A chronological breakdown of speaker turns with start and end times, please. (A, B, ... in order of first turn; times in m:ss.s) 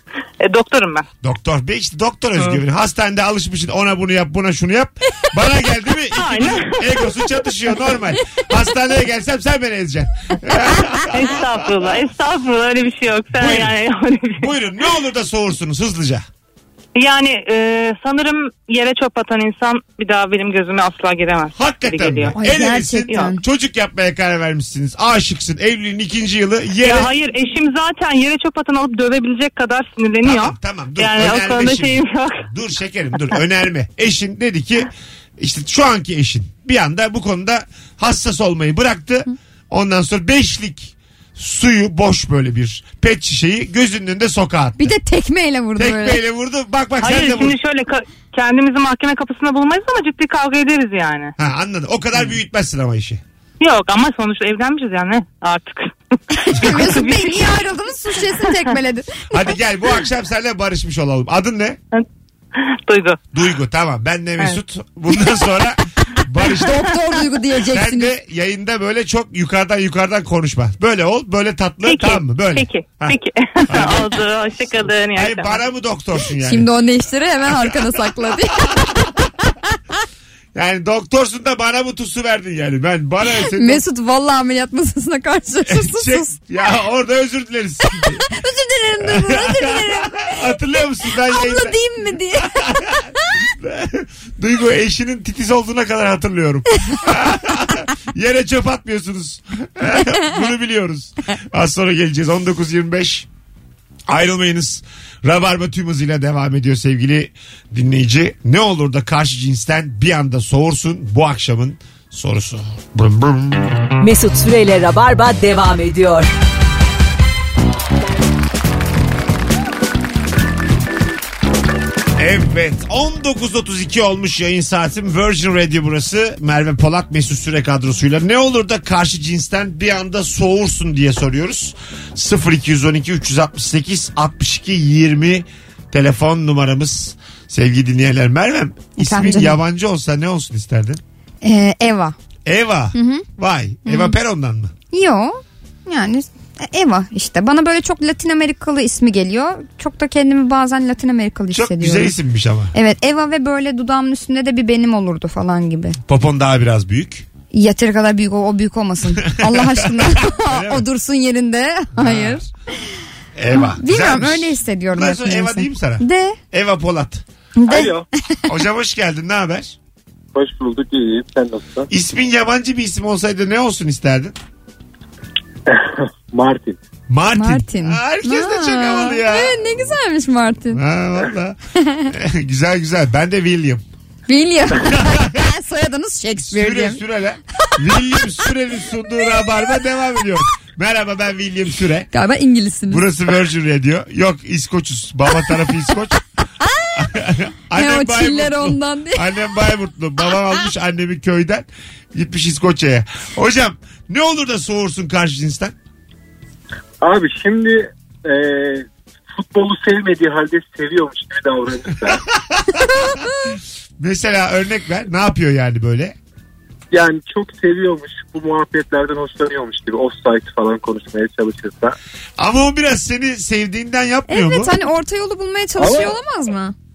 0:00.4-0:01.0 A
0:01.2-0:11.8 B
0:06.1-0:07.1 A
0:11.1-0:14.5 A
0:13.3-0:13.7 B
0:14.4-0:16.2 B
0:17.0-0:22.4 A
0:21.5-0:27.1 B
0:22.4-0:23.4 C
0:26.8-0:32.4 A
0:30.2-0:44.9 B
0:44.8-0:46.2 C
0:45.8-0:47.6 B
0:47.0-0:51.3 A
0:51.4-0:53.2 B
0:53.6-0:57.6 A
0:56.4-0:59.1 C
0:56.5-0:57.0 B
0:58.4-0:58.7 A
0:59.3-1:01.8 B
1:01.9-1:03.2 A
1:03.3-1:06.9 B
1:06.6-1:08.1 C
1:07.7-1:14.2 B
1:11.8-1:15.6 A
1:15.1-1:16.7 B
1:16.4-1:19.0 C
1:17.5-1:19.1 B
1:20.5-1:23.8 B
1:23.5-1:26.3 C
1:25.6-1:28.2 B
1:28.3-1:30.4 C
1:29.0-1:31.8 B
1:31.2-1:33.1 C
1:32.4-1:43.3 B
1:44.1-1:53.7 B
1:54.0-1:56.3 D
2:02.2-2:21.0 B
2:19.0-2:19.6 C
2:21.4-2:22.2 C
2:22.5-2:24.7 B
2:22.9-2:23.2 C
2:23.8-2:24.2 C
2:24.9-2:32.1 C
2:31.5-2:32.8 B
2:32.7-2:36.0 C
2:36.0-2:37.3 B
2:37.5-2:42.5 C
2:39.2-2:40.8 B
2:42.0-2:42.4 B
2:43.3-2:47.2 B
2:43.5-2:46.4 C
2:47.6-2:48.5 C
2:47.7-2:48.0 E
2:48.5-2:49.8 B
2:50.3-2:51.9 E
2:51.9-2:54.3 B
2:55.7-2:56.8 E
2:57.1-2:59.6 B
2:57.3-3:00.8 C
3:00.7-3:03.8 B
3:01.8-3:02.1 C
3:04.3-3:07.0 C
3:04.8-3:05.4 B
3:06.4-3:12.1 B
3:12.1-3:13.0 C
3:12.9-3:16.2 B
3:16.8-3:17.1 C
3:17.0-3:25.8 B
3:17.7-3:19.2 C
3:27.0-3:32.2 E
3:32.4-3:33.2 B
3:34.0-3:36.2 B
3:36.9-3:42.0 E
3:42.4-3:44.7 B
3:44.3-3:46.8 C
3:45.8-3:46.1 E